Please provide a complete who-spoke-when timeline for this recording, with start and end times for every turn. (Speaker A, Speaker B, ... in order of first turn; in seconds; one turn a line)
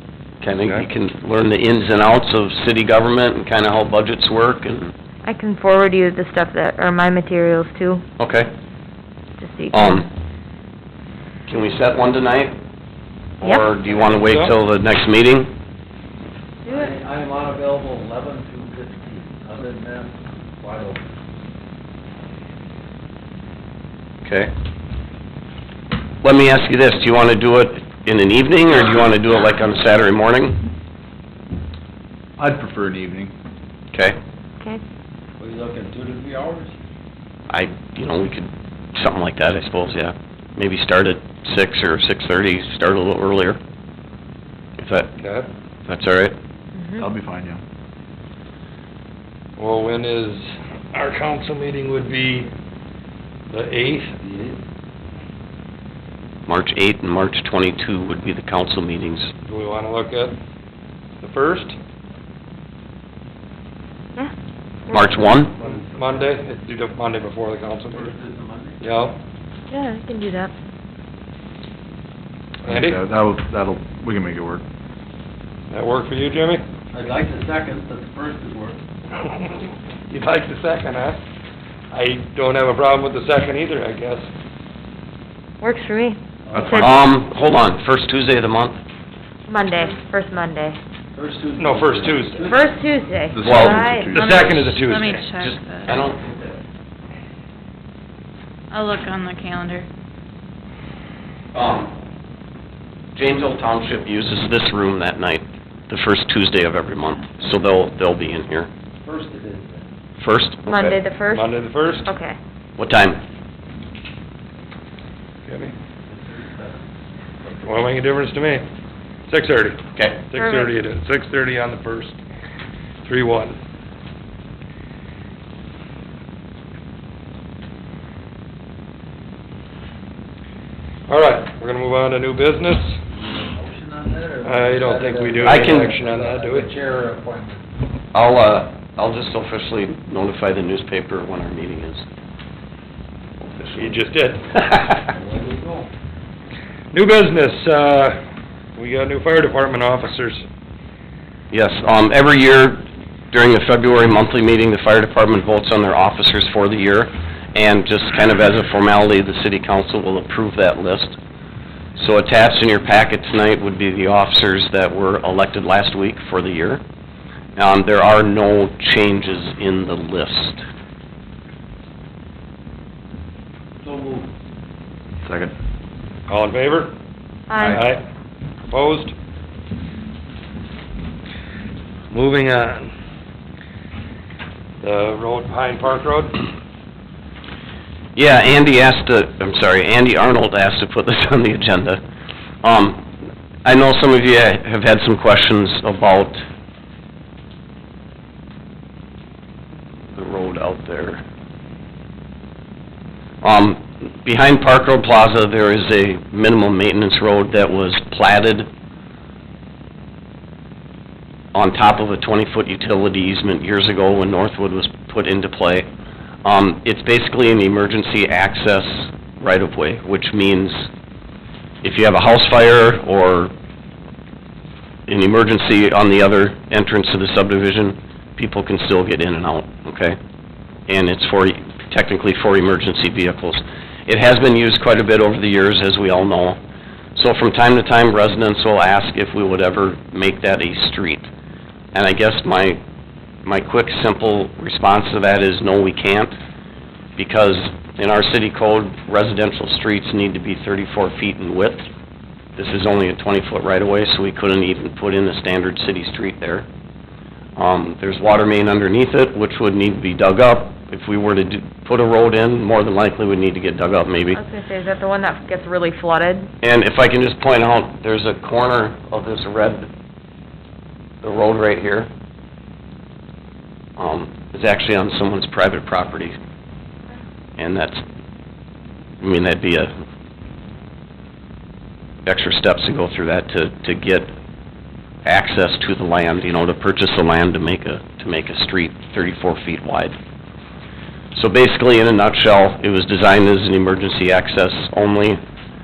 Speaker A: 0.4-4.9
Speaker B: 5.3-8.0
Speaker A: 8.2-8.5
Speaker B: 9.4-10.1
Speaker A: 9.7-10.1
Speaker A: 11.5-12.5
Speaker A: 13.4-15.5
Speaker C: 14.2-14.5
Speaker D: 16.7-21.1
Speaker A: 24.2-24.5
Speaker A: 26.2-30.6
Speaker E: 32.4-33.3
Speaker D: 35.4-36.7
Speaker A: 37.5-43.6
Speaker A: 44.8-45.1
Speaker C: 45.2-45.5
Speaker A: 45.9-46.4
Speaker E: 47.0-47.6
Speaker C: 49.6-52.5
Speaker C: 53.5-54.1
Speaker D: 54.2-54.6
Speaker A: 56.5-59.3
Speaker C: 59.5-60.4
Speaker C: 61.2-61.8
Speaker A: 64.9-65.5
Speaker B: 64.9-65.2
Speaker C: 65.6-68.1
Speaker D: 67.9-68.8
Speaker C: 68.8-69.2
Speaker B: 69.7-70.5
Speaker E: 72.6-74.6
Speaker C: 72.7-73.0
Speaker C: 75.7-76.6
Speaker D: 76.9-78.8
Speaker C: 80.1-81.2
Speaker C: 81.9-84.3
Speaker B: 85.6-86.9
Speaker D: 86.5-86.8
Speaker E: 86.6-87.0
Speaker A: 86.7-88.8
Speaker B: 89.5-90.8
Speaker D: 91.2-92.7
Speaker C: 91.6-92.5
Speaker B: 92.5-94.1
Speaker E: 93.3-94.9
Speaker A: 93.5-93.8
Speaker F: 94.1-96.0
Speaker C: 94.2-95.3
Speaker A: 95.4-96.6
Speaker F: 98.7-99.9
Speaker A: 101.5-101.9
Speaker A: 103.2-108.7
Speaker D: 109.0-109.9
Speaker A: 110.2-111.0
Speaker B: 110.7-111.5
Speaker C: 111.3-112.1
Speaker B: 112.0-112.4
Speaker A: 112.8-113.2
Speaker C: 115.5-115.7
Speaker D: 116.1-116.8
Speaker C: 117.6-118.7
Speaker C: 119.3-122.2
Speaker B: 120.3-120.7
Speaker C: 123.0-123.6
Speaker C: 131.1-133.0
Speaker D: 133.1-137.6
Speaker C: 134.4-136.7
Speaker A: 135.4-135.9
Speaker A: 138.1-142.1
Speaker A: 143.6-144.0
Speaker C: 143.8-144.4
Speaker D: 145.1-145.9
Speaker C: 146.9-148.2
Speaker C: 148.8-150.4
Speaker A: 151.5-161.2
Speaker A: 162.0-166.8
Speaker A: 167.6-170.7
Speaker D: 173.8-174.3
Speaker E: 175.2-175.5
Speaker C: 176.3-176.9
Speaker B: 177.5-177.8
Speaker C: 177.6-178.0
Speaker C: 178.7-179.1
Speaker C: 182.1-182.9
Speaker C: 184.8-186.4
Speaker A: 188.2-192.0
Speaker A: 192.6-193.0
Speaker A: 193.6-196.4
Speaker A: 200.1-201.2
Speaker A: 203.4-208.7
Speaker A: 211.5-215.9
Speaker A: 216.4-220.9
Speaker A: 221.8-223.5
Speaker A: 225.1-230.2
Speaker A: 230.9-236.6
Speaker A: 237.2-241.3
Speaker A: 241.9-242.8
Speaker A: 243.4-246.3
Speaker A: 247.2-251.8
Speaker A: 252.6-256.6
Speaker A: 257.6-264.4
Speaker B: 264.3-266.5
Speaker A: 266.6-269.9
Speaker A: 271.2-272.1
Speaker A: 274.0-276.4
Speaker A: 277.6-278.0
Speaker A: 279.2-279.9
Speaker A: 282.3-284.3
Speaker A: 285.2-290.1
Speaker A: 291.4-295.4